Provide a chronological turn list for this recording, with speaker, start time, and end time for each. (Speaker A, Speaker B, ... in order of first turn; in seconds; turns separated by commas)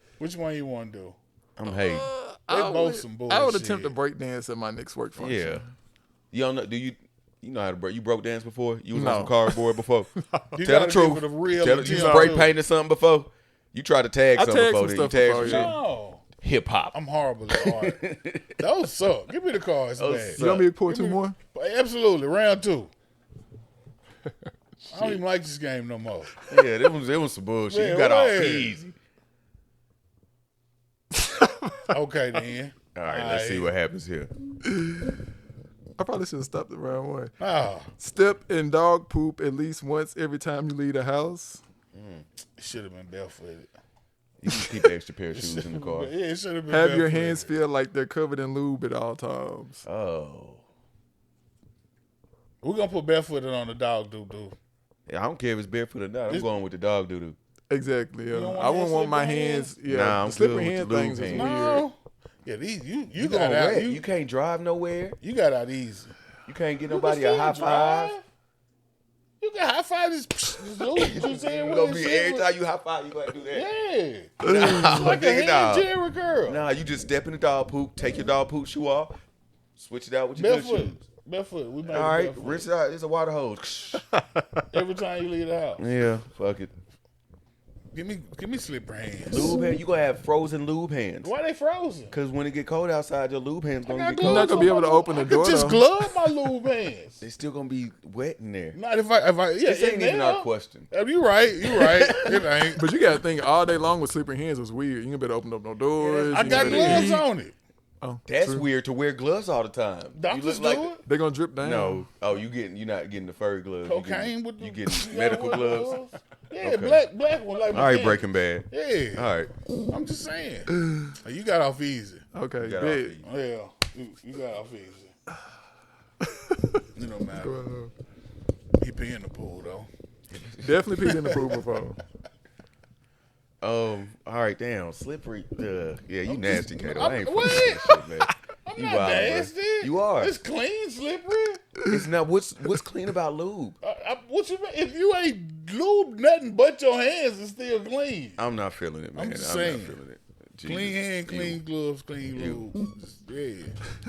Speaker A: 0.2-1.2, Speaker B: 1.6-2.1, Speaker C: 1.6-5.6, Speaker A: 2.5-3.9, Speaker B: 5.2-5.6, Speaker B: 6.3-15.7, Speaker C: 8.9-10.6, Speaker A: 10.6-12.5, Speaker C: 11.8-12.4, Speaker C: 14.3-15.7, Speaker A: 15.4-16.2, Speaker B: 16.4-16.9, Speaker A: 16.9-18.0, Speaker B: 17.5-18.6, Speaker A: 18.6-22.9, Speaker B: 20.0-20.7, Speaker C: 20.4-21.4, Speaker A: 24.9-26.4, Speaker B: 26.5-28.9, Speaker A: 27.7-28.8, Speaker C: 31.1-31.9, Speaker A: 31.9-33.7, Speaker B: 32.9-34.3, Speaker C: 34.7-35.1, Speaker C: 36.0-37.3, Speaker A: 37.4-37.9, Speaker C: 38.0-41.6, Speaker B: 41.9-42.2, Speaker A: 42.6-43.7, Speaker B: 44.4-46.1, Speaker A: 45.3-47.5, Speaker C: 46.7-49.8, Speaker B: 49.8-50.6, Speaker A: 52.6-54.5, Speaker B: 55.1-57.4, Speaker C: 57.7-61.9, Speaker A: 58.3-59.7, Speaker B: 59.8-61.8, Speaker A: 61.3-64.0, Speaker B: 63.1-65.2, Speaker A: 65.2-66.1, Speaker B: 66.5-68.1, Speaker A: 66.9-68.2, Speaker A: 69.4-72.5, Speaker B: 70.9-73.7, Speaker A: 73.5-76.6, Speaker B: 74.4-75.9, Speaker C: 74.4-75.1, Speaker B: 76.5-79.2, Speaker B: 79.8-81.0, Speaker A: 80.3-82.7, Speaker B: 81.9-84.0, Speaker C: 84.1-84.6, Speaker A: 84.7-85.8, Speaker B: 85.8-86.7, Speaker A: 87.9-89.6, Speaker B: 89.2-91.3, Speaker A: 91.2-92.1, Speaker B: 92.1-94.7, Speaker A: 93.8-97.2, Speaker C: 94.2-95.8, Speaker B: 97.2-98.8, Speaker A: 98.7-102.8, Speaker B: 99.6-100.9, Speaker B: 101.6-102.8, Speaker C: 102.8-107.2, Speaker B: 106.0-107.2, Speaker A: 106.3-107.5, Speaker C: 108.0-108.6, Speaker B: 108.2-110.9, Speaker A: 110.1-111.0, Speaker C: 111.0-112.1, Speaker B: 111.6-116.0, Speaker A: 113.8-119.3, Speaker B: 116.6-117.0, Speaker B: 117.7-119.5, Speaker A: 119.9-122.2, Speaker C: 120.8-121.1, Speaker C: 122.3-123.2, Speaker B: 122.6-123.2, Speaker A: 123.2-125.1, Speaker C: 126.5-126.8, Speaker A: 126.9-127.6, Speaker C: 127.3-127.9, Speaker A: 128.8-129.9, Speaker B: 130.3-131.2, Speaker C: 130.6-132.0, Speaker B: 133.6-140.3, Speaker A: 136.4-138.0, Speaker A: 138.7-141.6, Speaker B: 141.9-143.8, Speaker A: 143.8-148.4, Speaker B: 148.4-151.6, Speaker A: 149.2-150.0, Speaker A: 150.6-153.8, Speaker B: 152.3-152.7